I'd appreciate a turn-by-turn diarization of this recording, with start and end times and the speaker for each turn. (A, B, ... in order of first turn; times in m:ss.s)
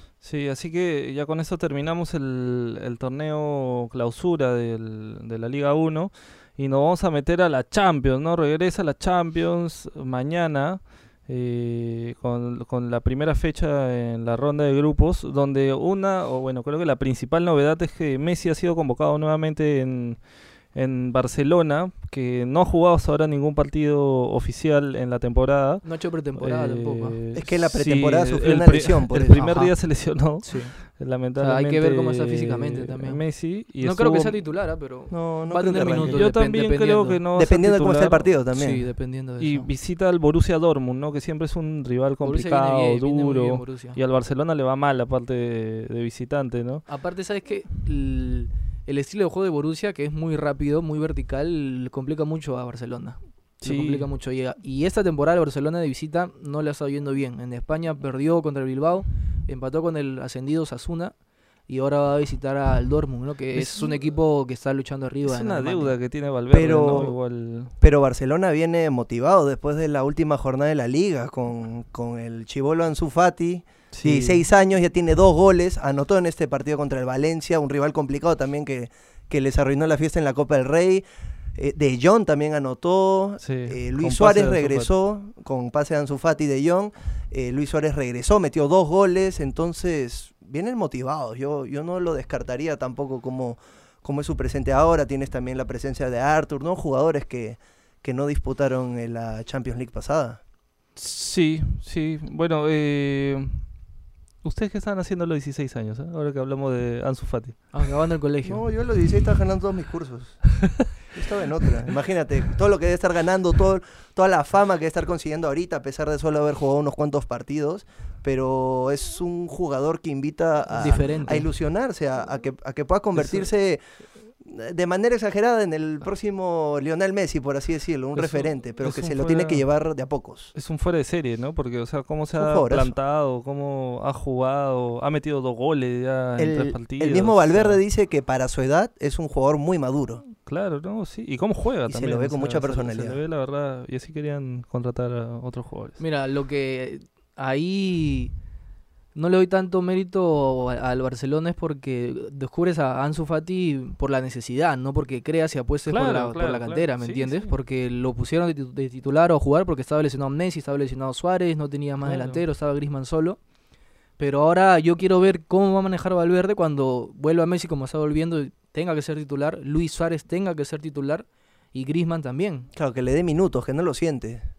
0:00.2-0:34.4 A
0:25.8-0:27.2 B
0:27.3-0:29.6 C
0:29.3-0:37.2 B
0:35.1-0:36.2 C
0:36.0-0:38.4 A
0:37.3-0:39.0 C
0:38.5-0:39.7 B
0:39.4-0:46.9 A
0:42.2-0:44.0 B
0:46.8-1:06.0 B
0:53.6-0:54.1 A
1:03.5-1:04.0 A
1:05.2-1:07.7 A
1:06.5-1:21.0 C
1:13.9-1:14.5 A
1:21.6-1:40.4 C
1:23.4-1:24.9 A
1:41.0-1:43.9 A
1:44.4-1:47.9 A
1:47.7-1:48.6 B
1:48.4-2:10.5 C
2:00.7-2:01.5 B
2:03.1-2:03.5 A
2:08.2-2:09.9 A
2:10.5-2:17.8 A
2:12.3-2:12.9 C
2:16.4-2:20.2 C
2:20.4-2:26.0 A
2:21.9-2:23.2 C
2:26.0-2:28.3 B
2:29.1-2:43.4 B
2:35.9-2:37.5 A
2:42.0-2:42.4 A
2:44.2-2:52.7 B
2:52.7-2:54.4 C